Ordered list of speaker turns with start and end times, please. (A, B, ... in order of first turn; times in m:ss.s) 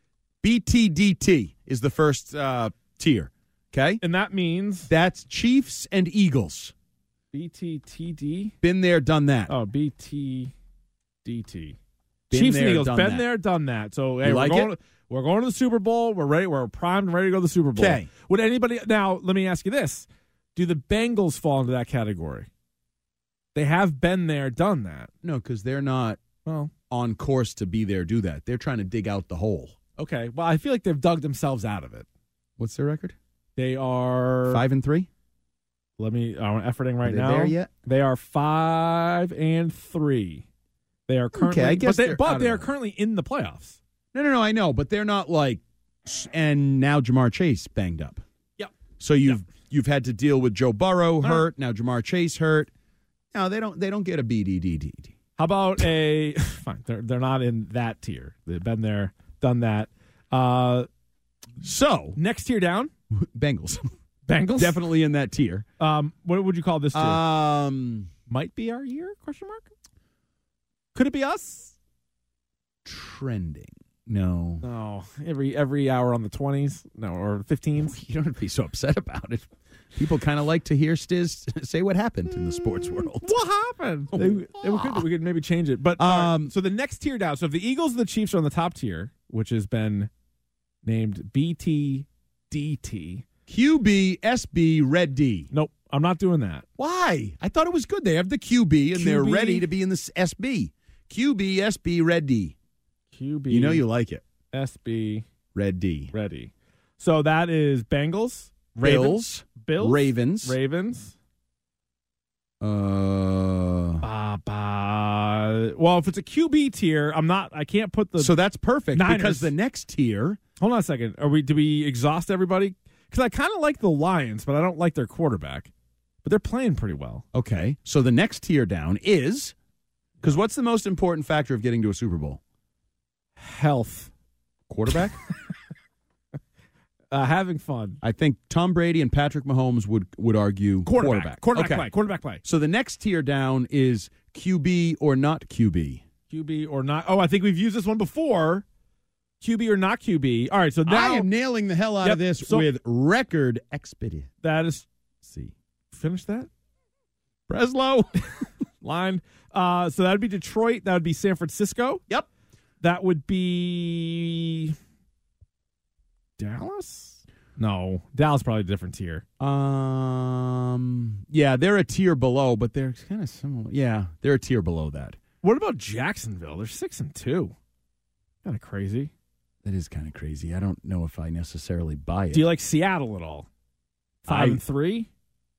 0:00.4-0:04.0 A
0:04.0-0:04.9 B
0:04.9-0:06.7 A
0:07.3-0:08.5 B
0:08.6-0:09.5 A
0:09.5-0:10.5 B
0:11.2-0:11.8 B
0:12.3-0:13.3 A
0:12.3-0:22.5 B
0:14.2-0:14.7 A
0:17.8-0:18.1 A
0:23.5-0:25.1 B
0:25.2-0:26.2 A
0:26.4-0:26.7 B
0:26.9-0:29.8 A
0:30.0-0:32.0 B
0:32.6-0:33.2 A
0:33.6-0:34.6 B
0:34.5-0:35.1 A
0:36.0-0:40.4 B
0:37.0-0:37.7 A
0:41.1-0:43.8 B
0:41.3-0:42.7 A
0:44.1-0:48.2 A
0:49.0-0:52.7 A
0:53.3-0:55.1 A
0:55.4-1:00.9 B
1:01.6-1:02.2 A
1:02.2-1:02.9 B
1:03.1-1:03.8 A
1:04.3-1:04.8 B
1:04.6-1:05.6 A
1:05.8-1:07.2 B
1:06.9-1:08.1 A
1:08.3-1:09.7 B
1:10.9-1:11.7 B
1:12.8-1:14.6 A
1:14.6-1:17.9 B
1:17.8-1:23.3 A
1:23.0-1:30.1 B
1:24.1-1:25.1 A
1:26.0-1:26.5 A
1:30.8-1:33.2 B
1:33.5-1:35.5 A
1:35.5-1:36.6 B
1:36.8-1:42.6 A
1:38.9-1:39.7 B
1:43.1-1:43.8 B
1:43.5-1:44.2 A
1:44.5-1:45.2 B
1:45.5-1:46.1 A
1:46.1-1:51.1 B
1:48.8-1:50.6 A
1:52.6-1:54.0 A
1:54.0-1:58.3 B
1:58.2-2:00.4 A
1:58.9-1:59.5 B
2:00.6-2:05.7 B
2:06.2-2:07.2 B
2:07.3-2:09.5 A
2:10.2-2:12.4 A
2:13.4-2:14.1 B
2:14.7-2:15.2 A
2:17.1-2:18.0 B
2:18.0-2:21.9 A
2:20.8-2:22.4 B
2:22.4-2:26.0 A
2:26.3-2:28.6 B
2:29.4-2:31.3 B
2:30.8-2:34.3 A
2:32.0-2:32.7 B
2:34.4-2:34.9 B
2:35.2-2:35.5 A
2:35.9-2:36.5 B
2:37.5-2:38.2 A
2:38.8-2:42.0 B
2:42.8-2:44.7 B
2:46.4-2:49.2 B
2:49.4-2:55.2 A
2:55.4-2:57.5 B
2:58.4-2:59.1 B
2:59.6-3:02.5 A
3:02.3-3:03.5 B
3:04.2-3:04.6 A
3:04.3-3:05.1 B